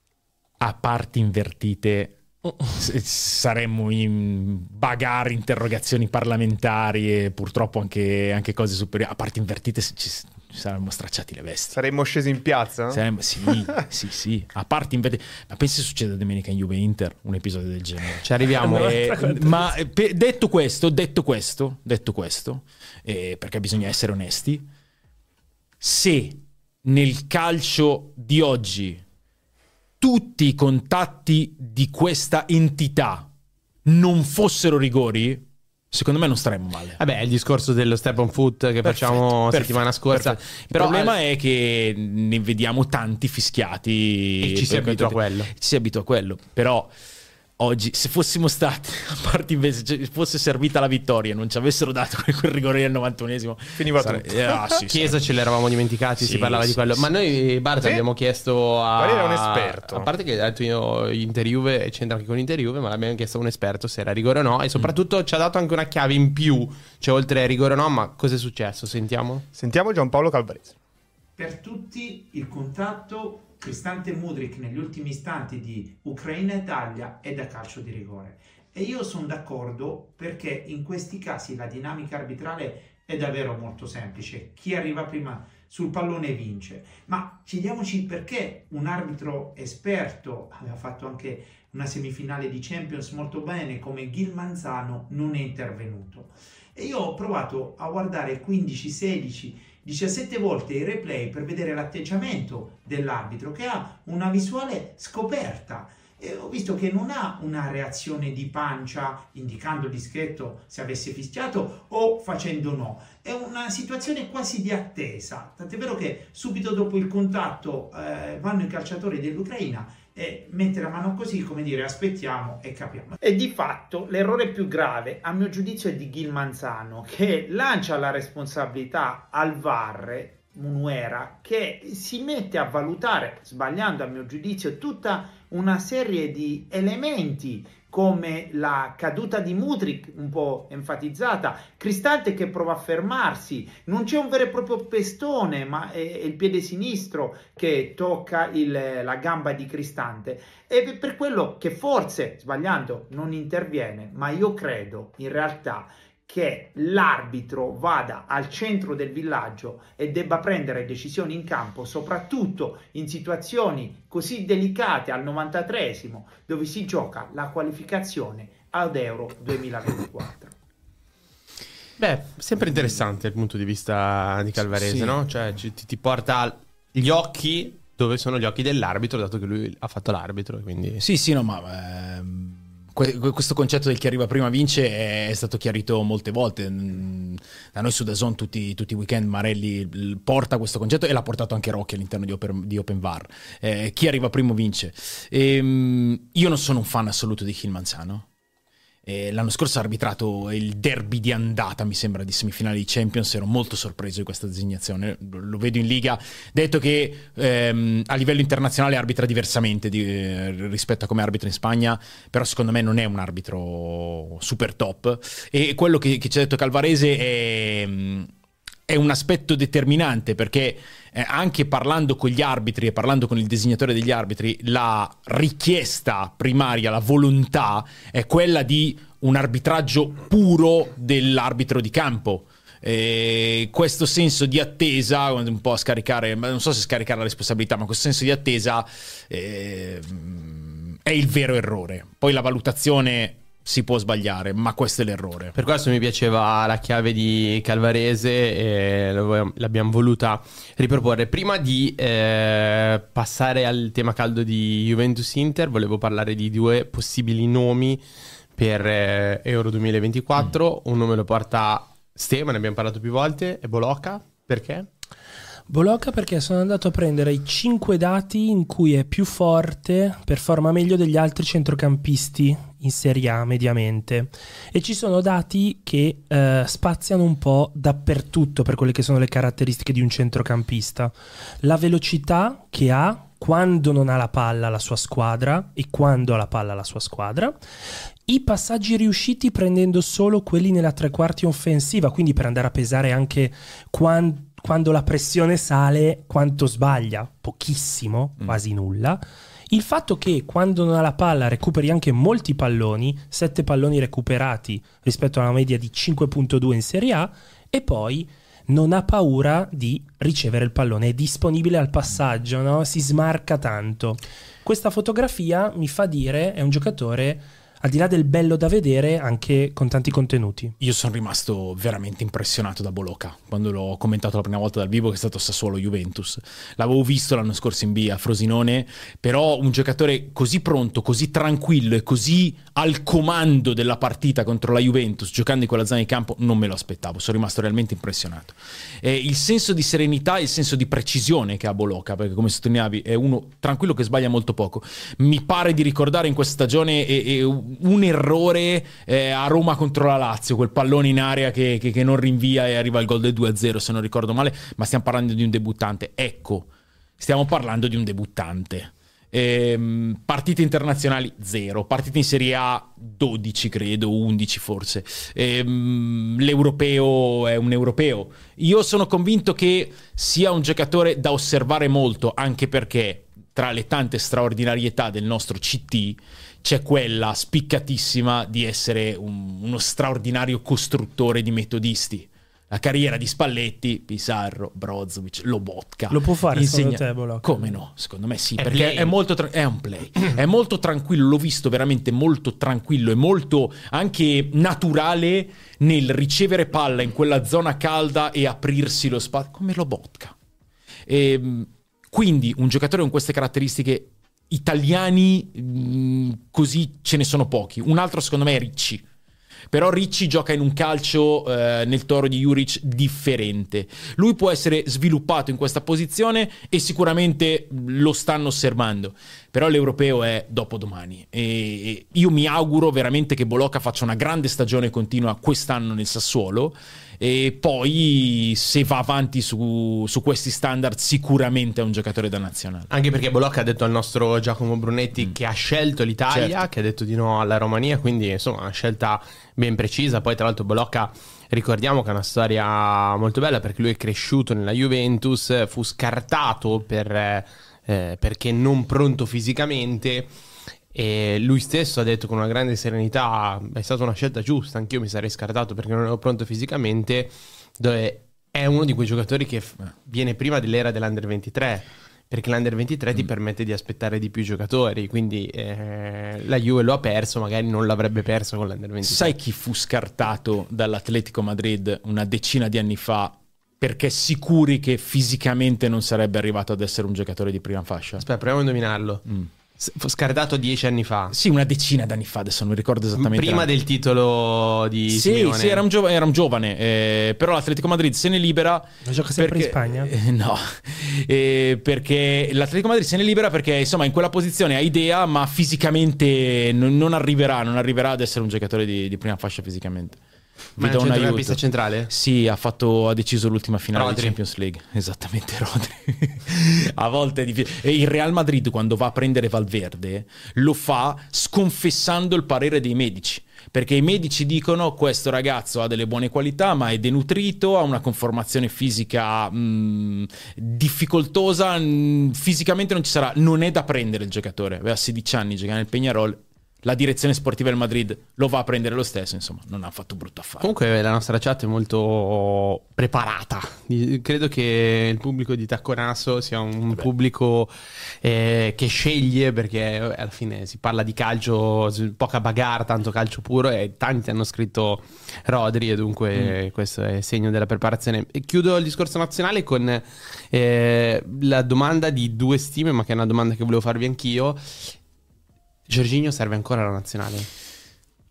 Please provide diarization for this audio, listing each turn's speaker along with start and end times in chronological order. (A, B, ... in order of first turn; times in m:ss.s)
0:00.6-0:11.8 A
0:11.7-0:13.6 B
0:12.9-0:24.7 A
0:18.2-0:19.1 C
0:18.7-0:19.6 D
0:25.8-0:29.0 A
0:30.0-0:33.3 A
0:33.8-0:37.0 A
0:37.0-0:41.2 C
0:38.8-0:46.9 A
0:44.4-0:45.5 C
0:47.6-0:55.2 A
0:53.8-0:54.7 B
0:54.9-1:09.5 C
0:56.2-0:57.0 A
0:59.0-1:00.1 B
1:09.5-1:10.7 B
1:11.4-2:50.5 E
2:52.0-3:01.0 C
2:54.8-2:55.2 A
3:01.0-3:18.3 A
3:19.0-3:38.3 A
3:38.9-4:05.5 A
4:05.5-4:18.0 C
4:18.6-4:24.9 C
4:25.7-4:47.6 D
4:48.3-5:20.8 D
5:20.8-6:40.3 A
6:26.1-6:27.5 D
6:28.6-6:29.1 C
6:41.1-6:49.0 A
6:49.7-7:12.9 A
7:12.9-7:30.3 C
7:16.3-7:16.7 A
7:30.9-7:49.4 C
7:49.0-7:58.2 A
7:58.2-7:59.2 C
7:59.8-8:01.3 C
8:01.3-8:03.7 A
8:03.2-8:05.8 C
8:05.1-8:20.2 A
8:09.0-8:10.1 D
8:20.8-8:50.7 A
8:20.8-8:22.1 C
8:23.9-8:24.4 C
8:50.6-9:14.9 C
9:15.9-9:17.5 C